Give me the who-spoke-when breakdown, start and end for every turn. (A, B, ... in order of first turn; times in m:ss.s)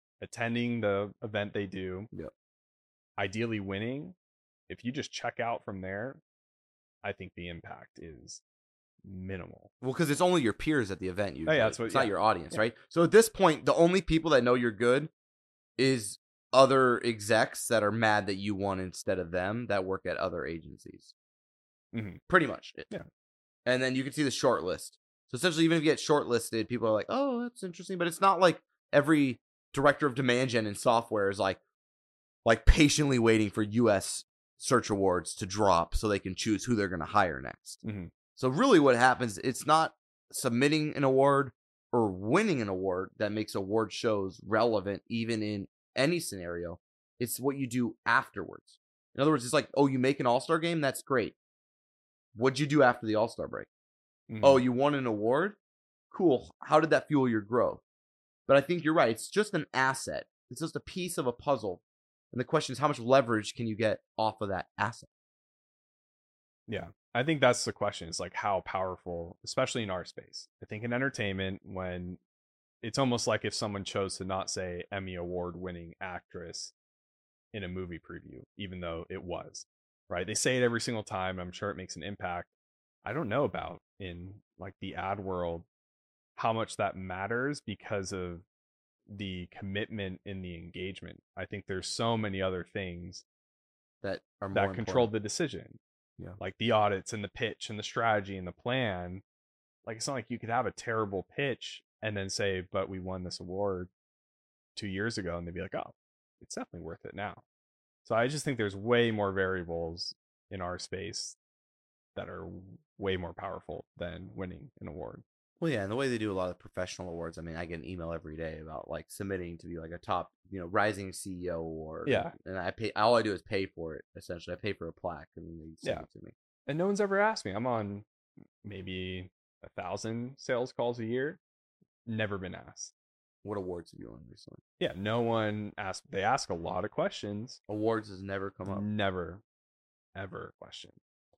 0:00.2-0:02.1 A
0:03.2-0:04.2 A
0:04.7-0:06.2 A
0:07.0-0:08.4 A
0:09.0-0:09.7 A
0:09.8-0:15.1 B
0:11.5-0:12.6 A
0:15.8-0:21.1 B
0:21.9-0:22.2 A
0:22.3-0:22.9 B
0:23.7-0:31.6 B
0:32.4-0:37.8 B
0:37.8-0:38.1 A
0:38.4-0:51.4 B
0:52.4-0:53.7 B
0:54.3-0:54.6 A
0:54.4-0:55.6 B
0:56.1-0:57.8 B
0:58.5-1:01.8 B
1:02.3-1:05.1 B
1:06.7-1:12.2 A
1:12.8-1:16.7 A
1:17.5-1:22.5 A
1:23.0-1:25.7 A
1:26.4-1:28.4 A
1:29.1-1:33.2 A
1:34.0-1:35.1 B
1:34.5-1:35.8 A
1:36.4-1:39.2 A
1:39.8-1:43.9 A
1:44.8-1:47.4 A
1:48.0-1:51.4 A
1:52.2-1:55.2 A
1:55.6-2:06.3 B
2:02.1-2:02.3 A
2:06.7-2:08.1 A
2:08.6-2:11.4 A
2:12.1-2:12.9 A
2:13.4-2:14.6 B
2:14.8-2:17.6 A
2:17.7-2:18.9 B
2:18.7-2:19.4 A
2:20.2-2:21.0 A